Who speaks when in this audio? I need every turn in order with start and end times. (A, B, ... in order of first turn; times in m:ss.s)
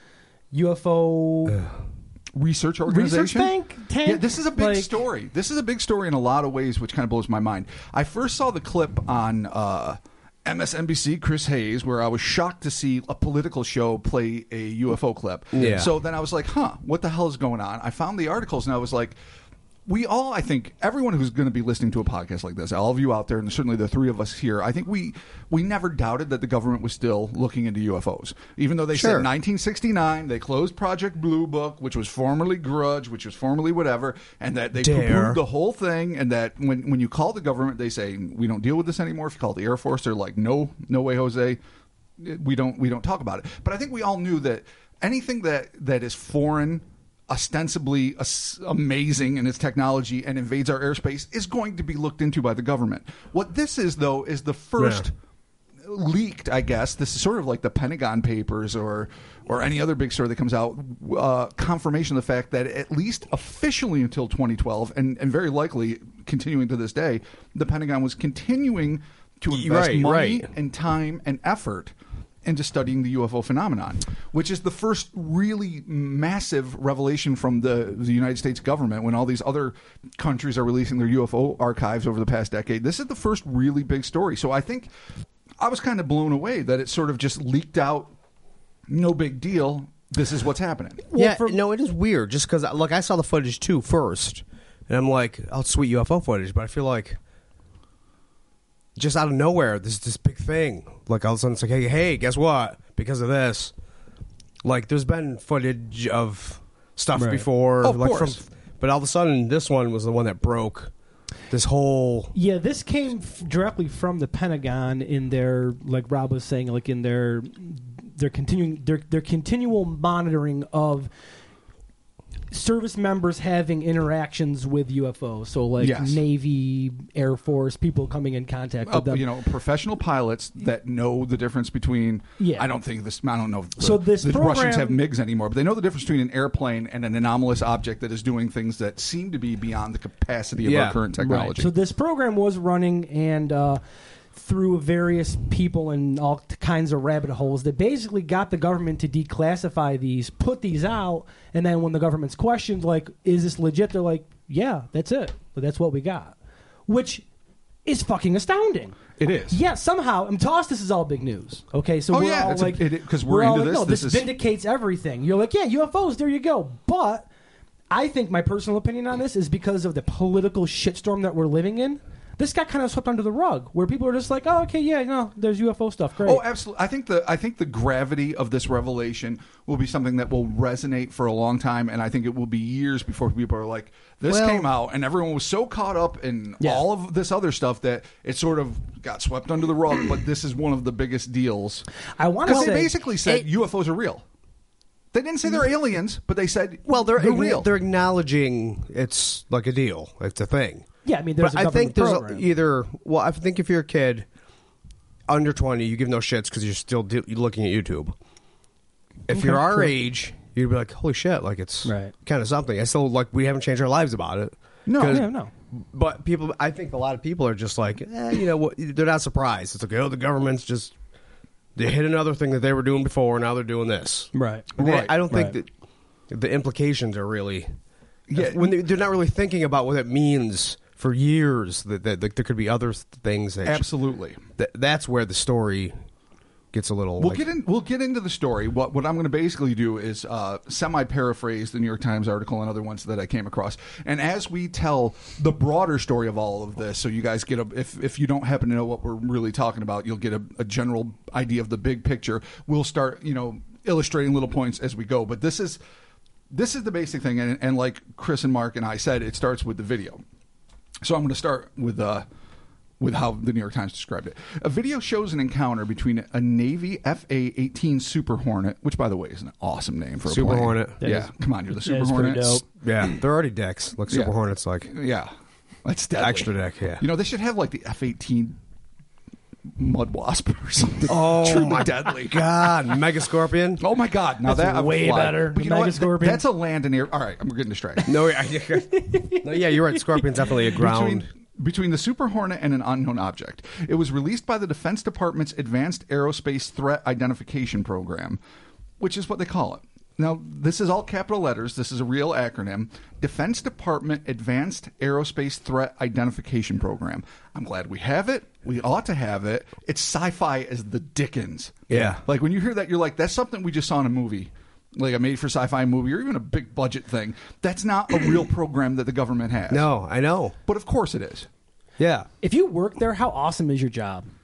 0:00.5-0:01.6 A
0:02.3-0:03.5 B
0:02.9-0:04.9 A
0:04.0-0:19.2 B
0:15.5-0:15.9 C
0:19.9-0:41.6 B
0:28.9-0:29.3 C
0:34.8-0:35.4 C
0:42.2-0:55.1 B
0:54.8-0:55.1 C
0:55.8-1:11.9 B
1:09.5-1:10.5 C
1:12.4-1:24.9 B
1:25.6-1:28.1 B
1:28.9-1:31.0 B
1:31.1-1:31.6 A
1:31.2-1:37.2 C
1:39.0-1:43.7 C
1:44.6-1:50.9 C
1:47.2-1:47.5 A
1:47.8-1:48.4 B
1:51.5-1:52.4 C
1:52.3-2:01.1 A
2:02.5-2:09.2 A
2:05.8-2:06.2 B
2:08.9-2:21.7 B
2:12.4-2:12.7 A
2:13.8-2:15.0 A
2:20.6-2:21.0 C
2:21.2-2:23.8 A
2:24.4-2:36.4 A
2:36.9-2:37.2 A
2:37.8-2:47.3 A
2:39.2-2:39.6 B
2:42.1-2:44.3 B
2:47.9-2:56.4 A
2:56.2-3:11.9 B
3:04.3-3:04.7 C
3:06.6-3:06.9 A
3:12.2-3:12.9 A
3:12.5-3:14.2 B
3:12.5-3:13.5 C
3:15.1-3:17.7 B
3:16.9-3:20.9 C
3:21.0-3:22.5 A
3:21.4-3:24.3 C
3:25.3-3:28.2 C
3:29.3-3:41.0 C
3:29.3-3:29.9 A
3:31.8-3:32.1 A
3:34.9-3:35.3 B
3:35.0-3:35.5 A
3:41.8-3:45.7 C
3:44.3-3:44.7 A
3:44.8-3:45.2 B
3:45.3-3:45.6 A
3:46.3-3:47.7 C
3:48.3-3:48.8 B
3:48.4-3:53.9 C
3:53.6-3:54.4 B
3:54.6-3:55.9 C
3:56.7-3:57.4 C
3:57.2-4:15.8 B
4:16.5-4:20.2 B
4:21.0-4:22.3 B
4:23.0-4:32.6 B
4:30.3-4:31.0 C
4:31.0-4:32.7 A
4:32.8-4:34.9 C
4:34.1-4:34.3 B
4:34.9-4:35.3 B
4:35.8-4:38.6 B
4:36.2-4:37.0 C
4:39.8-4:42.8 B
4:41.1-4:43.8 C
4:43.8-4:48.2 B
4:44.4-4:46.4 A
4:48.0-4:51.3 C
4:48.8-4:50.3 A
4:50.8-4:58.4 B
4:59.0-5:19.9 B
5:11.9-5:12.2 C
5:19.7-5:20.6 C
5:20.7-5:21.5 B
5:22.0-5:22.3 C
5:22.4-5:24.3 A